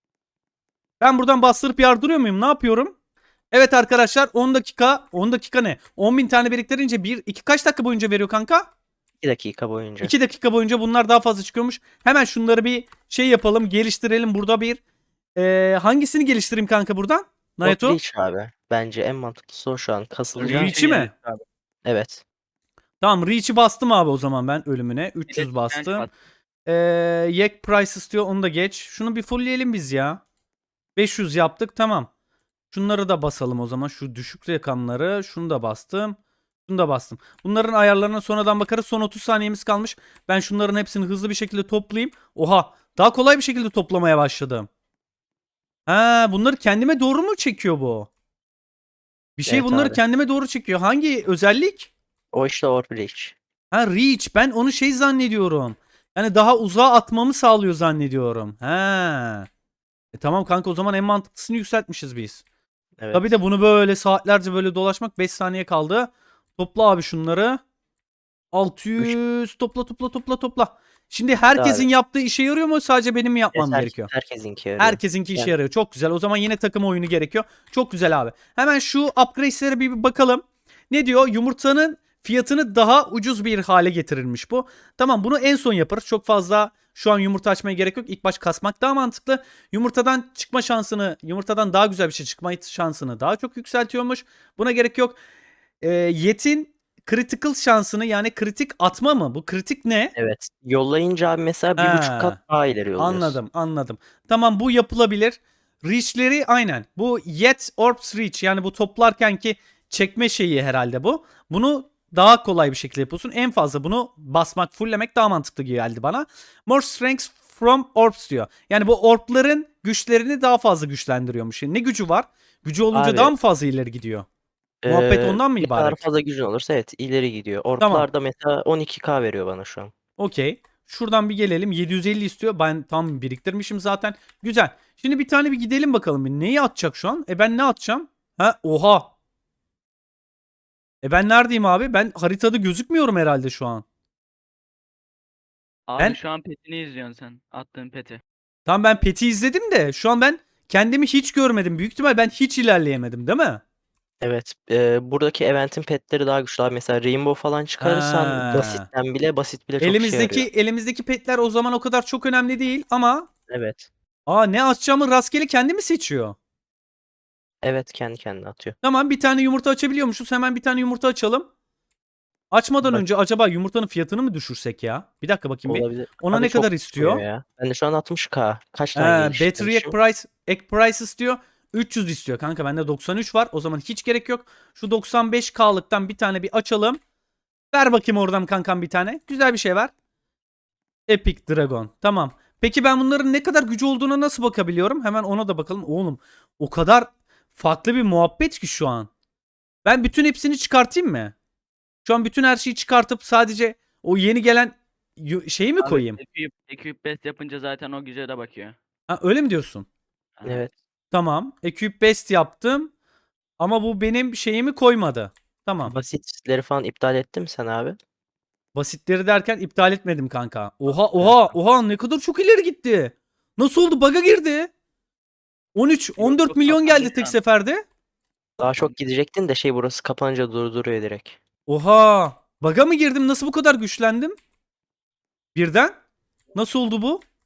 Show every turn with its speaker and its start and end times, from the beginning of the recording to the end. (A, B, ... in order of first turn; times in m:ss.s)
0:01.0-0:02.9 A
0:03.5-0:08.7 A
0:09.2-0:10.1 B
0:10.0-0:14.8 A
0:15.4-0:18.0 A
0:17.6-0:20.8 B
0:20.3-0:21.4 C
0:20.4-0:21.1 A
0:21.8-0:22.2 B
0:23.0-0:26.1 A
0:25.3-0:26.1 C
0:26.6-0:30.2 A
0:31.0-0:32.1 A
0:32.7-0:44.7 A
0:45.9-0:48.1 A
0:49.4-0:51.9 A
0:49.5-0:50.0 B
0:52.3-0:53.4 B
0:53.7-0:59.5 A
1:00.1-1:02.4 A
1:03.0-1:03.3 B
1:03.1-1:07.6 A
1:08.5-1:14.1 A
1:11.5-1:11.9 B
1:13.5-1:15.5 B
1:14.8-1:35.2 A
1:35.8-1:40.1 A
1:40.1-1:43.4 B
1:41.8-1:42.4 A
1:43.0-2:04.2 A
2:02.9-2:03.3 B
2:04.8-2:09.9 B
2:04.9-2:06.0 A
2:07.8-2:08.1 A
2:10.2-2:19.1 A
2:21.0-2:23.8 A
2:25.9-2:28.2 C
2:28.6-2:33.6 A
2:34.2-2:40.5 B
2:37.8-2:38.8 A
2:39.8-2:43.3 A
2:43.5-2:43.9 B
2:44.3-2:46.4 A
2:47.6-2:48.8 B
2:48.8-2:51.5 A
2:52.5-2:57.2 A
2:55.6-2:59.9 B
2:58.9-3:07.0 A
3:07.7-3:09.9 A
3:11.1-3:19.1 A
3:19.8-3:21.3 A
3:22.0-3:26.2 A
3:25.8-3:28.8 C
3:29.1-3:29.8 A
3:30.4-3:30.6 C
3:30.4-3:30.7 B
3:31.1-3:32.9 A
3:33.6-3:35.9 A
3:35.8-3:38.0 B
3:38.7-3:44.7 A
3:41.2-3:41.5 B
3:45.7-3:47.8 A
3:46.2-3:47.4 C
3:48.6-3:51.4 B
3:51.7-3:54.4 A
3:55.5-3:56.0 A
3:56.5-3:57.2 A